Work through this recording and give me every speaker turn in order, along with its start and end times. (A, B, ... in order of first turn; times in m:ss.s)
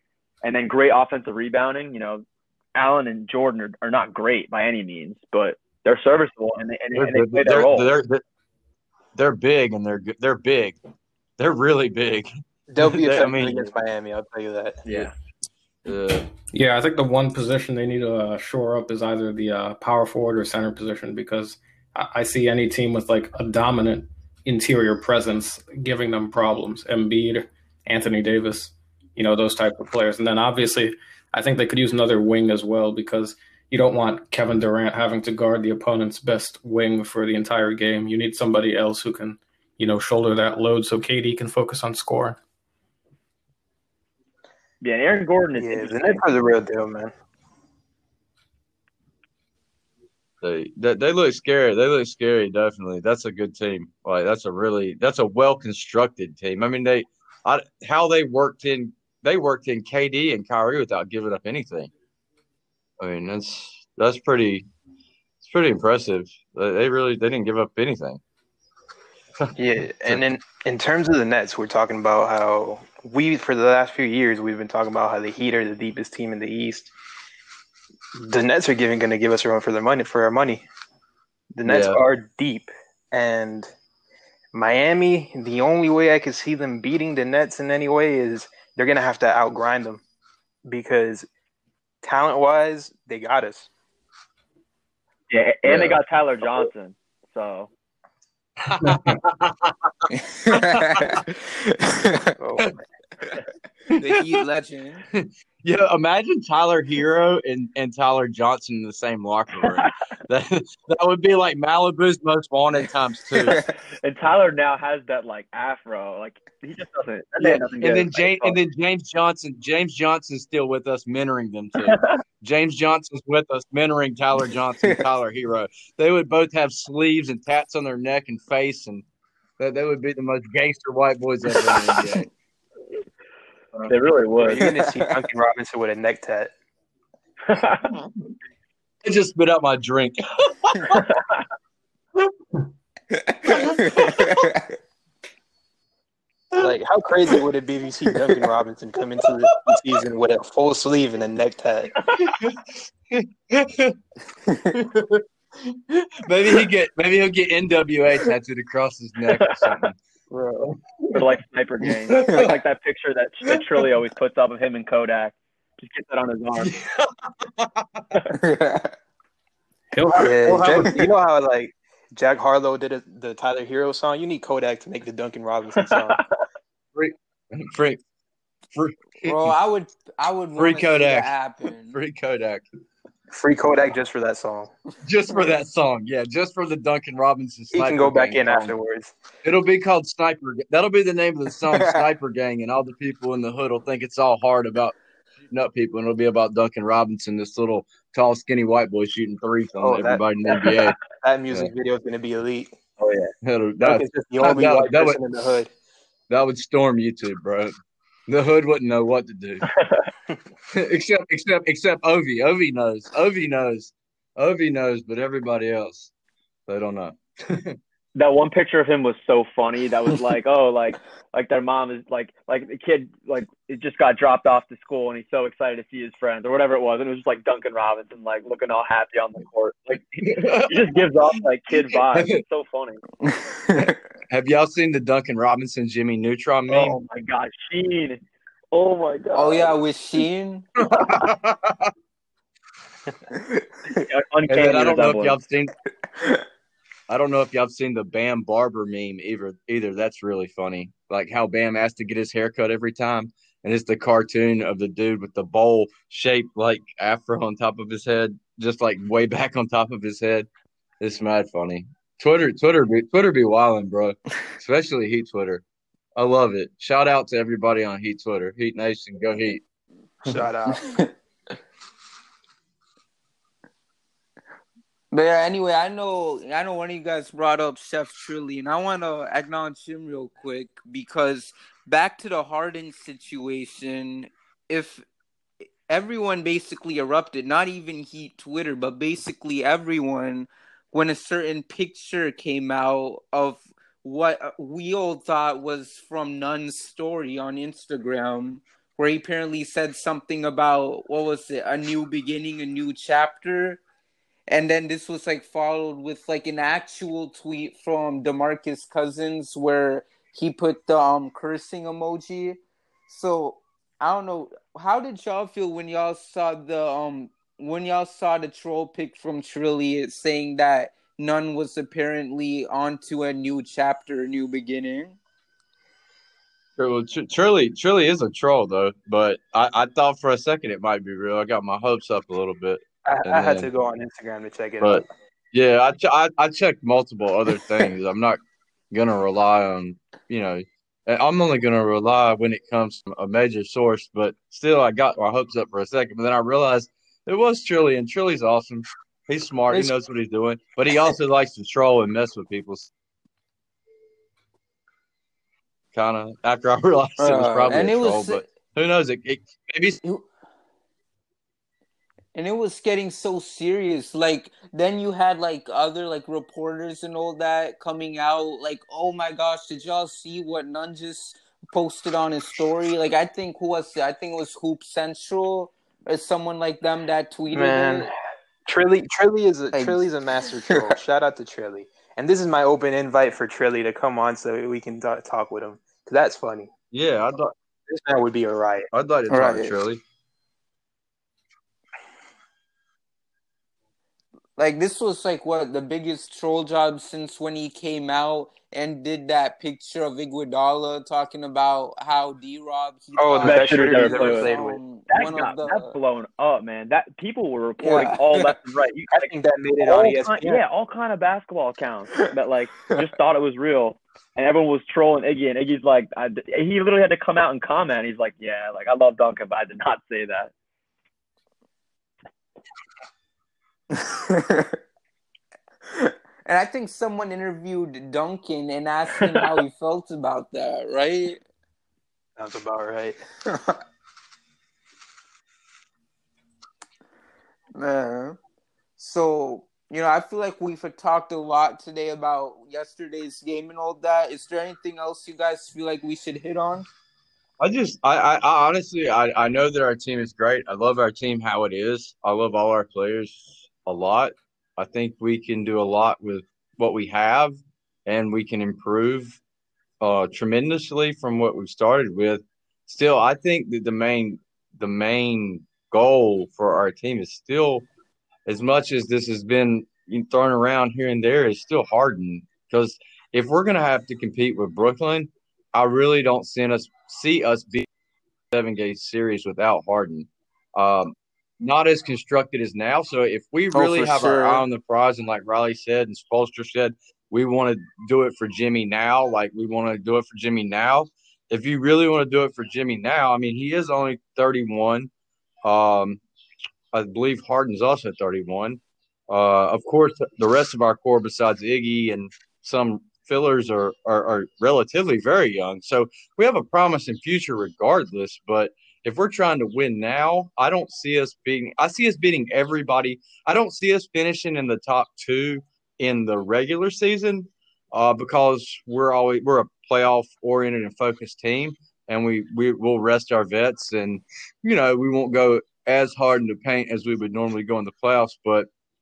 0:00.4-0:02.2 A
0:02.8-0:07.9 A
0:07.0-0:08.2 B
0:09.2-0:10.8 B
0:11.4-0:13.7 B
0:12.7-0:14.8 C
0:14.9-0:15.1 B
0:15.8-0:16.3 B
0:16.5-0:42.4 D
0:44.8-0:46.2 A
0:45.6-0:47.1 C
0:50.4-1:01.9 B
1:03.0-1:04.7 B
1:05.4-1:08.2 B
1:09.6-1:16.9 C
1:18.2-1:20.7 C
1:21.5-1:23.7 C
1:21.7-1:22.0 B
1:24.5-1:30.0 C
1:30.6-1:31.3 C
1:32.0-1:33.7 C
1:35.3-1:37.7 A
1:35.7-1:36.0 B
1:38.6-1:41.2 B
1:38.8-1:39.2 D
1:40.1-1:42.4 E
1:42.4-1:42.8 C
1:44.0-1:45.0 E
1:45.1-1:53.6 B
1:53.5-1:53.8 E
1:54.0-1:58.6 A
1:57.4-2:09.0 B
2:01.8-2:02.2 A
2:09.6-2:12.3 B
2:11.6-2:12.2 E
2:13.9-2:14.6 A
2:14.4-2:16.5 C
2:14.6-2:15.2 E
2:17.5-2:18.0 A
2:19.0-2:21.1 B
2:20.9-2:21.2 A
2:23.1-2:24.7 E
2:23.4-2:24.4 B
2:26.6-2:32.0 C
2:29.5-2:29.8 B
2:32.2-2:34.0 B
2:34.7-2:40.0 B
2:39.3-2:39.8 A
2:40.3-2:40.7 C
2:41.0-2:41.3 B
2:41.1-2:46.7 A
2:41.9-2:42.6 B
2:43.5-2:43.8 B
2:46.6-2:48.0 B
2:48.4-2:48.9 E
2:49.9-2:50.9 D
2:50.2-2:56.2 C
2:50.6-2:50.8 B
2:57.0-2:58.0 B
2:58.7-2:59.6 B
2:59.2-3:02.0 E
3:00.6-3:02.6 B
3:03.3-3:04.7 C
3:05.0-3:08.7 B
3:07.7-3:09.1 C
3:09.4-3:15.0 B
3:11.7-3:12.0 E
3:15.5-3:21.0 B
3:19.8-3:22.8 C
3:23.0-3:25.4 B
3:23.8-3:25.7 C
3:26.3-3:27.7 B
3:28.3-3:29.8 B
3:30.7-3:36.1 B
3:36.7-3:37.8 B
3:38.2-3:53.0 A
3:50.2-3:50.9 B
3:52.1-3:52.4 B
3:53.2-3:54.0 E
3:54.3-3:57.0 B
3:56.7-3:58.2 A
3:58.7-3:59.8 A
3:59.3-4:00.7 E
4:00.8-4:01.9 B
4:01.0-4:01.3 A
4:03.3-4:03.9 E
4:03.9-4:05.4 A
4:04.5-4:05.8 B
4:07.1-4:20.5 B
4:21.0-4:25.6 B
4:26.2-4:29.6 B
4:30.2-4:31.0 C
4:30.7-4:31.1 E
4:35.1-4:45.0 E
4:45.9-5:03.8 E
5:04.5-5:25.2 E
5:26.8-5:33.7 B
5:33.1-5:35.0 C
5:34.8-5:38.4 B
5:38.9-5:52.9 B
5:55.9-6:00.0 B
5:57.2-5:58.5 E
6:02.3-6:18.1 E
6:17.5-6:18.1 C
6:18.7-6:26.7 C
6:19.7-6:20.0 E
6:26.9-6:27.5 B
6:27.9-6:28.9 C
6:28.9-6:30.0 B
6:29.3-6:29.8 E
6:34.6-6:45.9 E
6:43.2-6:44.8 C
6:43.4-6:44.5 A
6:45.1-7:00.5 A
6:47.8-6:48.5 E
6:49.1-6:50.6 C
7:03.9-7:04.8 E
7:05.9-7:11.4 E
7:12.4-7:13.2 C
7:13.5-7:13.8 E
7:17.8-7:18.4 E
7:19.0-7:26.9 E
7:27.6-7:39.4 B
7:40.0-7:47.9 B
7:48.5-7:57.9 B
7:58.5-8:15.1 B
8:03.7-8:04.6 E
8:15.6-8:16.2 B
8:16.9-8:48.7 B